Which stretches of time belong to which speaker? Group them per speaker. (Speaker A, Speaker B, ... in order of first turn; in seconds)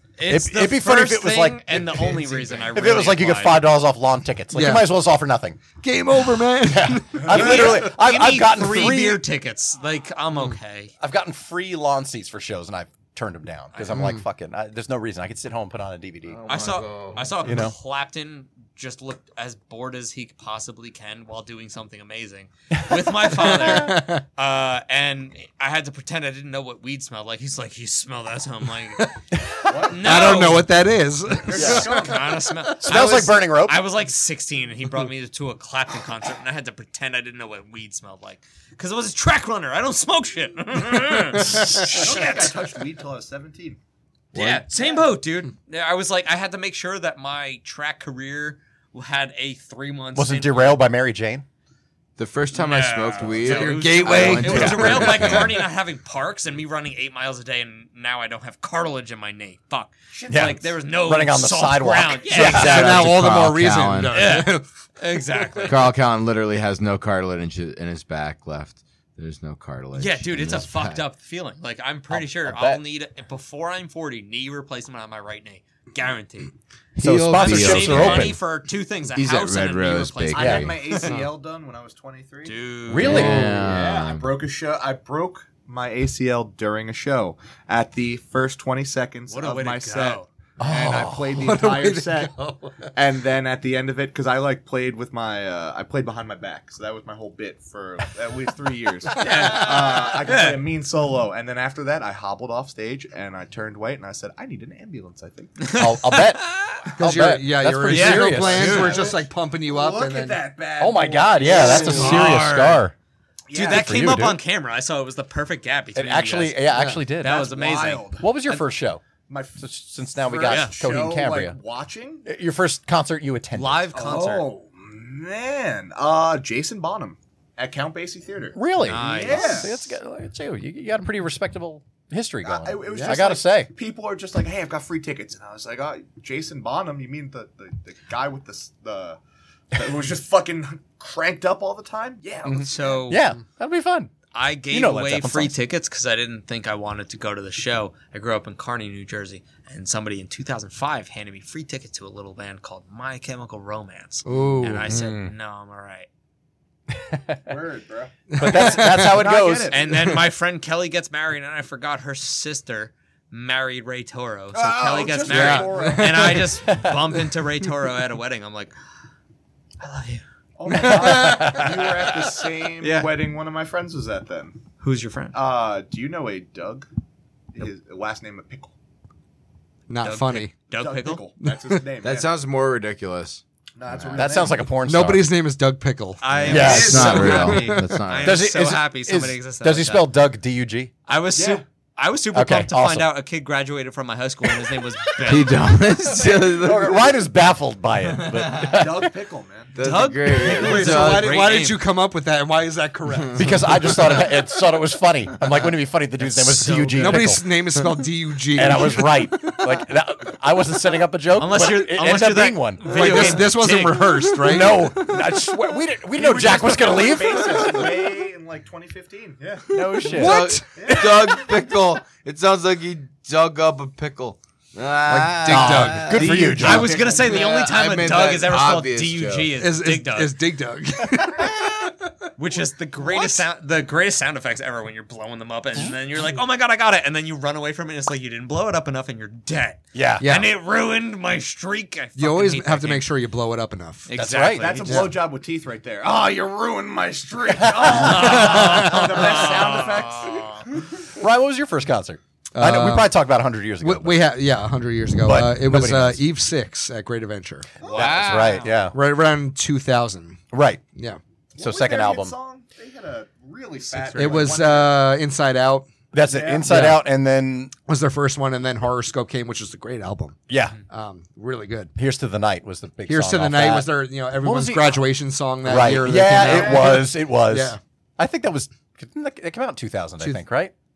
Speaker A: 0.2-3.7, 7.2-10.9, 13.7-14.0, 16.5-29.1, 29.9-30.7, 31.5-42.6, 44.3-50.8, 52.5-62.9, 64.1-65.9, 70.0-76.5, 77.3-81.2, 82.5-83.4, 89.3-90.3, 99.2-100.6, 105.6-106.8, 107.9-109.0, 111.5-112.8, 113.5-116.6, 117.2-118.1, 120.5-120.8, 123.5-124.5, 128.8-129.8, 142.6-143.2, 144.3-156.1, 159.7-168.7, 169.8-170.2, 172.8-173.1, 174.8-175.4, 180.0-181.2, 186.2-190.1, 191.1-195.6, 199.8-201.8, 211.4-214.3, 226.6-230.3, 232.4-243.1, 244.1-245.1, 247.8-250.7, 257.8-258.8, 263.8-264.5
Speaker B: 0.3-5.6, 6.7-9.2, 11.0-16.4, 17.4-17.7, 31.6-31.8, 32.8-33.9, 50.1-51.5, 60.3-63.1, 72.1-72.8, 77.0-78.4, 80.4-80.7, 82.9-83.6, 90.6-91.3, 105.8-109.0, 110.8-112.9, 113.7-114.4, 116.0-117.5, 118.2-119.0, 119.6-121.6, 122.3-123.9, 128.6-133.7, 142.5-144.1, 144.7-145.6, 154.8-155.3, 156.9-157.5, 158.4-159.7, 166.7-167.0, 170.7-172.0, 184.2-185.3, 186.5-187.2, 188.2-190.9, 192.3-193.1, 196.6-199.1, 203.4-207.4, 208.6-213.4, 214.4-217.9, 219.7-221.1, 225.5-226.9, 239.9-240.3, 244.1-244.9, 247.6-248.4, 251.2-254.2, 255.2-256.2, 257.9-258.9, 260.5-260.8, 261.6-262.4, 266.1-267.7, 270.5-270.8, 271.9-275.0, 275.6-280.7
Speaker C: 4.5-4.9, 5.8-7.5, 13.9-14.2, 23.4-24.2, 30.0-32.1, 53.4-55.4, 62.4-64.7, 65.4-65.6, 83.1-83.6, 91.2-92.9, 107.0-110.5, 111.6-112.3, 116.7-117.1, 132.8-133.2, 154.3-155.1, 158.3-159.3, 165.3-166.5, 170.7-171.6, 179.9-180.6, 181.4-181.9, 184.8-186.2, 186.7-188.0, 200.4-204.2, 206.7-209.7, 212.8-215.4, 217.6-218.0, 219.9-220.8, 225.1-226.3, 229.6-232.1, 240.2-240.5, 242.2-244.1, 244.9-245.2, 248.0-249.4, 252.6-253.1, 253.8-257.7, 258.9-260.4, 260.9-261.2, 264.1-265.9, 266.6-267.1, 267.9-270.4, 270.9-271.9, 273.1-277.8
Speaker D: 16.3-17.4, 44.3-44.7, 52.2-55.6, 62.3-64.2, 65.6-71.0, 77.0-78.4, 79.2-80.8, 83.0-84.3, 182.0-184.3, 186.4-188.4, 195.3-197.0, 198.2-198.7, 199.7-201.4, 220.0-229.6
Speaker E: 29.6-30.6, 31.4-32.4, 41.8-43.8, 60.1-60.6, 80.3-82.6, 83.6-92.4, 93.0-105.8, 108.4-112.4, 113.5-114.2, 117.2-118.6, 119.3-122.3, 123.9-129.9, 132.4-139.2, 139.7-143.1, 157.5-160.0, 164.5-166.4, 170.6-174.6, 175.3-176.9, 177.5-178.7, 180.7-182.3, 183.8-184.7, 186.4-187.5, 191.3-191.6, 198.6-200.0, 216.1-219.8, 220.8-221.2, 226.1-227.5, 244.5-250.9, 257.8-258.6, 261.6-265.1, 266.2-266.7, 276.2-277.0